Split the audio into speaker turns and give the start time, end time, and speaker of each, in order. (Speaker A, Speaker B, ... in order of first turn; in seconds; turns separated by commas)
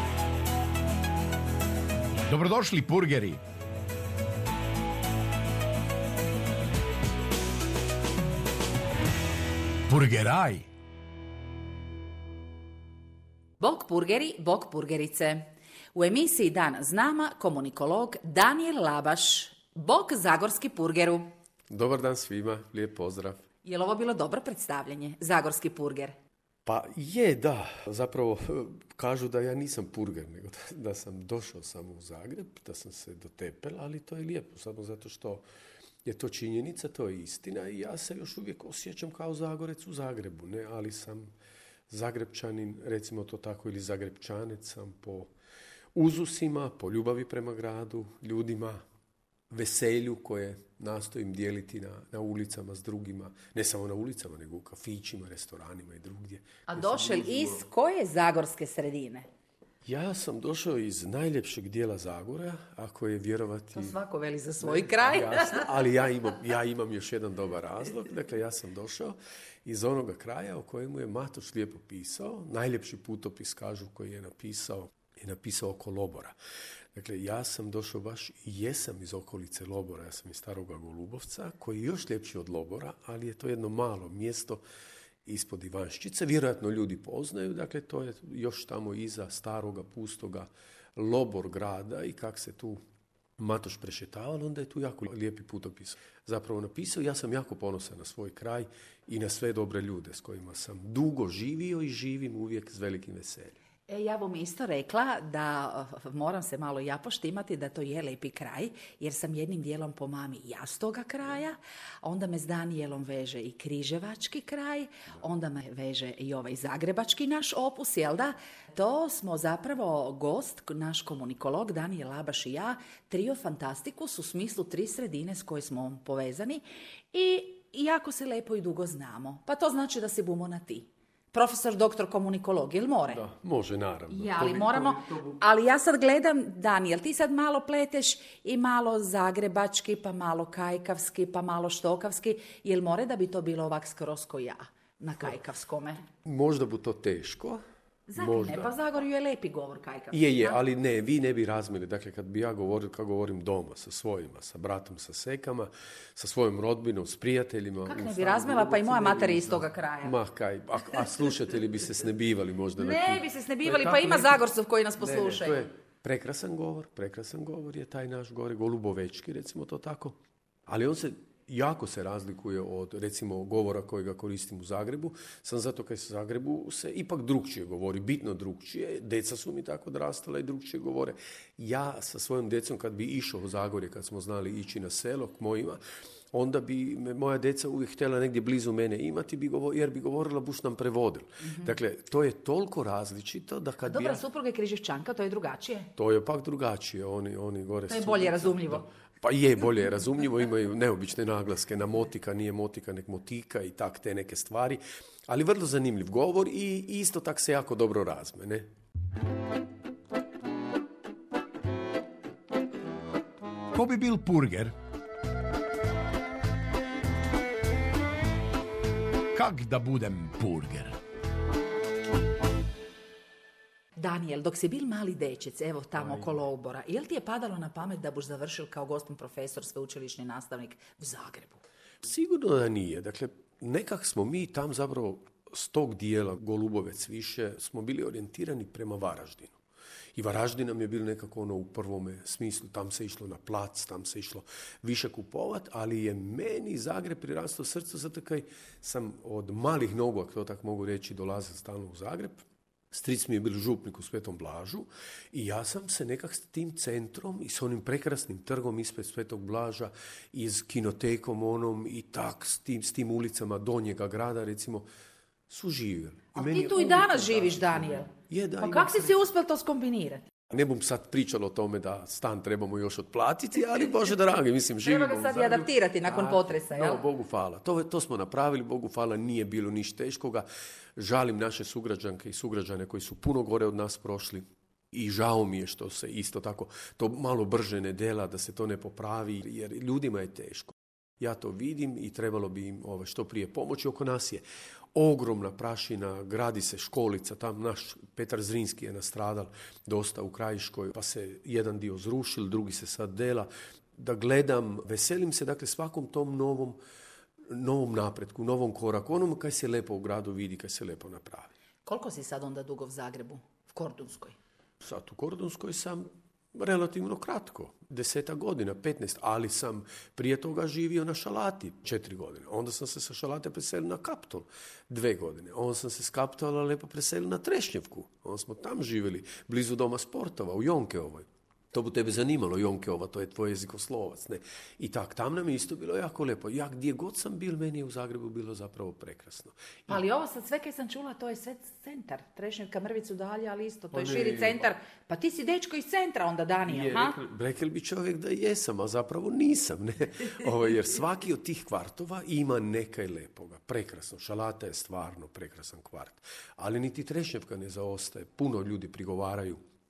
Speaker A: 2.3-3.4, Speaker A: 9.9-10.7, Speaker B: 13.6-21.3, Speaker C: 21.7-23.4, Speaker B: 23.6-26.1, Speaker C: 26.6-35.4, Speaker C: 36.0-41.3, Speaker C: 41.9-45.3, Speaker C: 46.0-48.8, Speaker C: 49.5-57.7, Speaker B: 56.7-59.3, Speaker C: 59.8-64.0, Speaker B: 63.7-65.7, Speaker C: 64.6-76.4, Speaker C: 76.9-84.6, Speaker C: 85.2-92.8, Speaker C: 93.4-103.5, Speaker B: 103.9-133.2, Speaker C: 133.1-135.4, Speaker B: 134.1-146.0, Speaker C: 146.2-147.6, Speaker B: 148.1-150.6, Speaker C: 148.2-148.7, Speaker C: 150.1-164.4, Speaker B: 157.8-160.2, Speaker B: 162.8-165.6, Speaker C: 165.0-194.2, Speaker B: 191.4-191.7, Speaker B: 193.8-195.9, Speaker C: 196.0-208.7, Speaker B: 197.9-198.8, Speaker A: 213.7-214.7, Speaker A: 219.3-221.0, Speaker B: 224.0-231.6, Speaker C: 226.0-226.3, Speaker C: 232.0-239.6, Speaker C: 240.1-264.9, Speaker C: 265.5-269.2, Speaker B: 266.3-270.2, Speaker C: 270.5-280.4, Speaker B: 274.8-277.0, Speaker C: 281.0-294.4, Speaker C: 294.9-306.8, Speaker C: 307.5-311.5, Speaker B: 311.8-314.4, Speaker C: 314.8-340.0, Speaker B: 339.9-347.2, Speaker C: 343.9-344.7, Speaker C: 346.6-359.6